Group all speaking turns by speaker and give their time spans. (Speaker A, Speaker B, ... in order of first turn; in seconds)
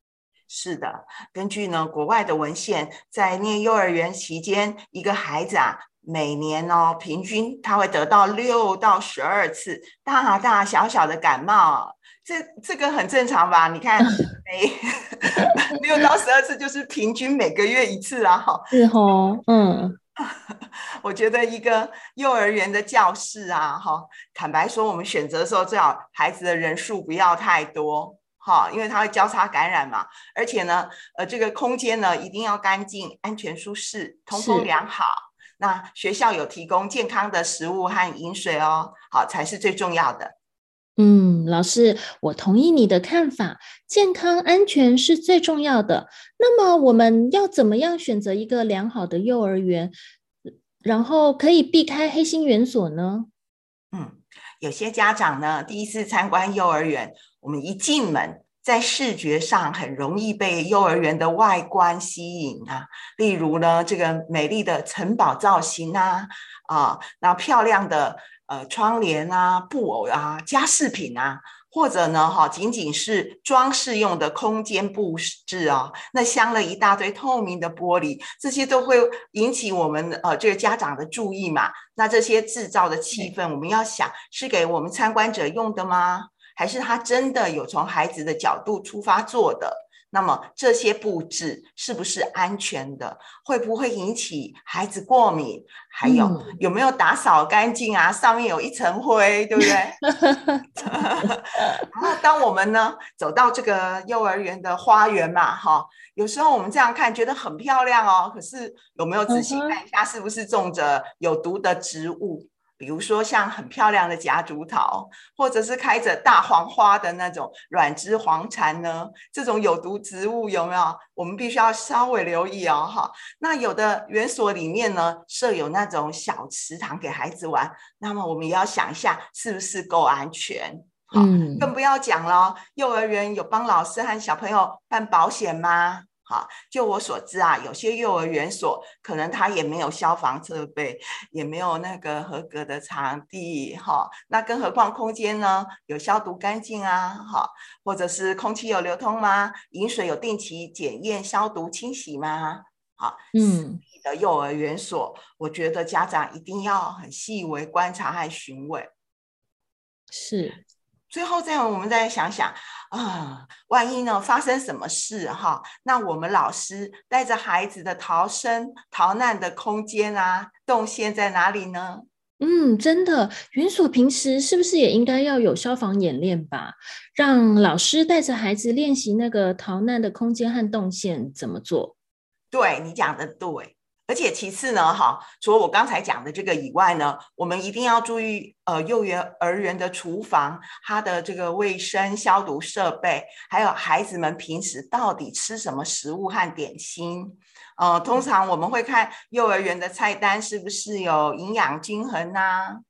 Speaker A: 0.5-19.4, 20.2-40.3, 53.9-100.0, 100.8-158.9, 161.1-172.1, 182.5-202.8
Speaker B: 18.7-19.9, 34.3-34.7, 41.0-49.9, 50.8-53.3, 96.0-96.6, 100.1-101.7, 109.3-109.8, 131.1-131.7, 153.3-153.8, 160.1-160.6, 172.4-181.9